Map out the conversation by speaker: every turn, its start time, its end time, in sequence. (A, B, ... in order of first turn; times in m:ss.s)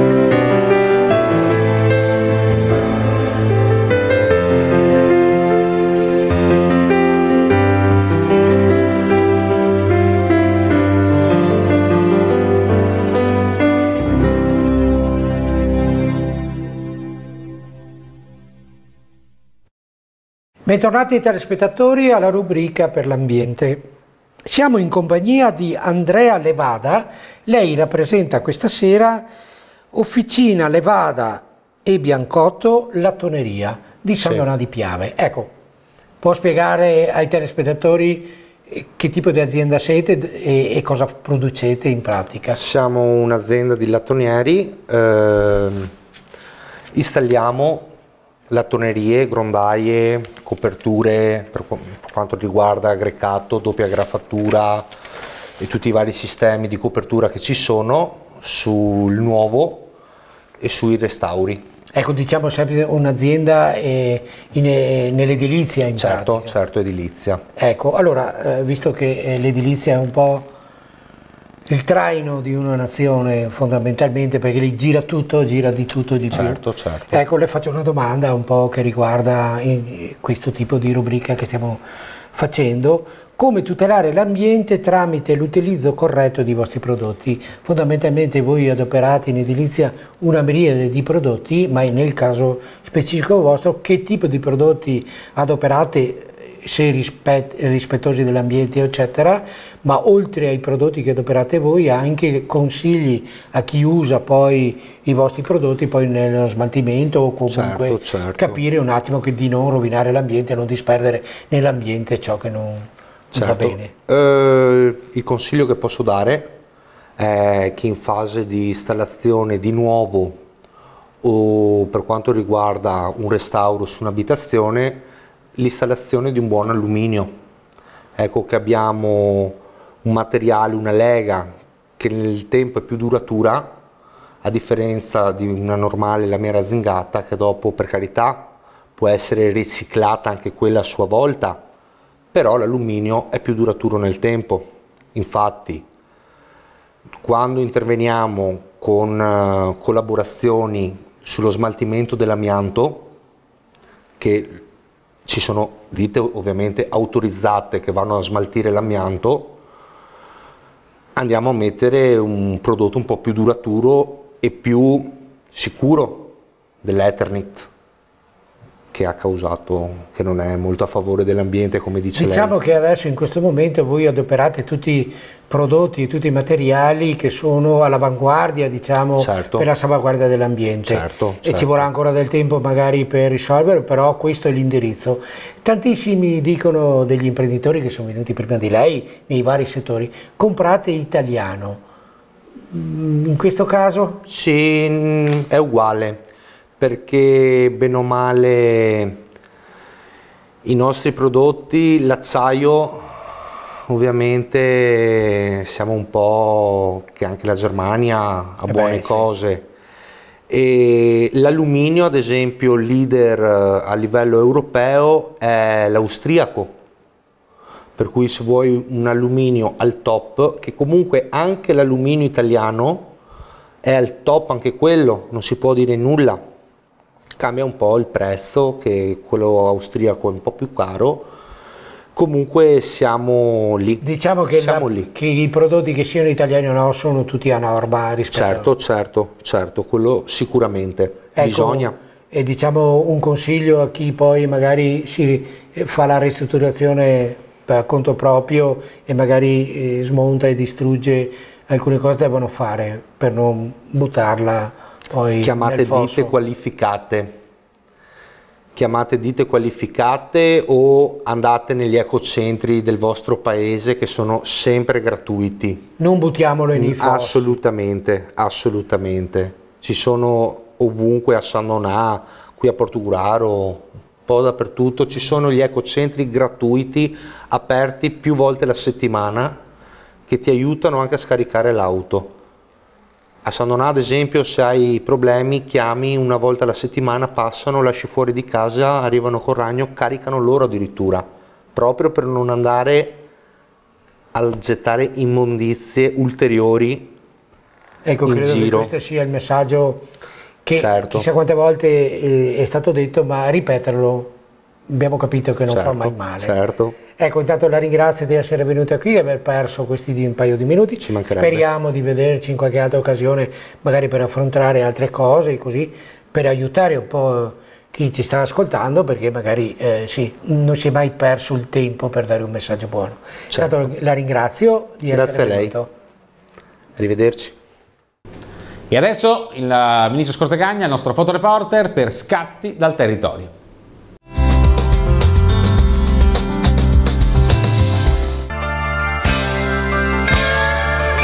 0:20.6-0:23.9 A
0:24.4-0:29.3 A
0:29.9-0:35.5 A
0:34.2-0:34.4 B
0:36.2-0:42.6 A
0:42.5-0:45.9 B
0:46.9-0:47.9 B
0:48.5-0:54.9 B
0:55.6-0:59.9 B
1:00.6-1:01.6 B
1:01.9-1:06.5 A
1:06.0-1:07.4 B
1:07.6-1:10.5 A
1:11.7-1:21.8 A
1:16.3-1:17.2 B
1:22.3-1:53.9 A
1:47.5-1:48.6 B
1:53.3-1:56.6 B
1:57.2-2:00.4 B
2:01.2-2:07.3 B
2:08.2-2:13.7 B
2:14.4-2:21.6 B
2:22.3-2:25.8 B
2:27.2-2:33.1 B
2:34.2-2:34.6 B
2:35.2-2:39.6 B
2:41.2-2:47.7 B
2:48.9-2:52.5 B
2:52.1-3:11.8 A
2:59.2-2:59.7 B
3:00.8-3:01.9 B
3:12.7-3:14.2 A
3:14.2-3:16.2 B
3:16.8-3:19.2 B
3:20.6-3:23.1 B
3:23.9-3:29.7 B
3:28.7-3:29.3 A
3:30.5-3:36.7 B
3:38.0-3:43.1 B
3:43.8-3:46.4 B
3:47.4-3:51.3 B
3:52.1-3:55.1 B
3:54.0-3:58.7 A
3:58.3-4:02.0 B
4:01.3-4:16.4 A
4:15.4-4:17.4 B
4:18.7-4:25.9 B
4:26.0-4:27.6 A
4:26.7-4:39.6 B
4:40.3-4:42.4 B
4:43.4-4:53.2 B
4:54.3-4:57.1 B
4:58.0-5:00.0 A
4:58.2-4:58.9 B
5:00.6-5:04.3 A
5:00.7-5:01.3 B
5:04.9-5:06.5 A
5:05.7-5:07.0 B
5:07.1-5:25.9 A
5:11.0-5:11.6 B
5:23.5-5:23.8 B
5:25.1-5:25.8 B
5:27.0-5:27.6 B
5:28.9-5:33.5 C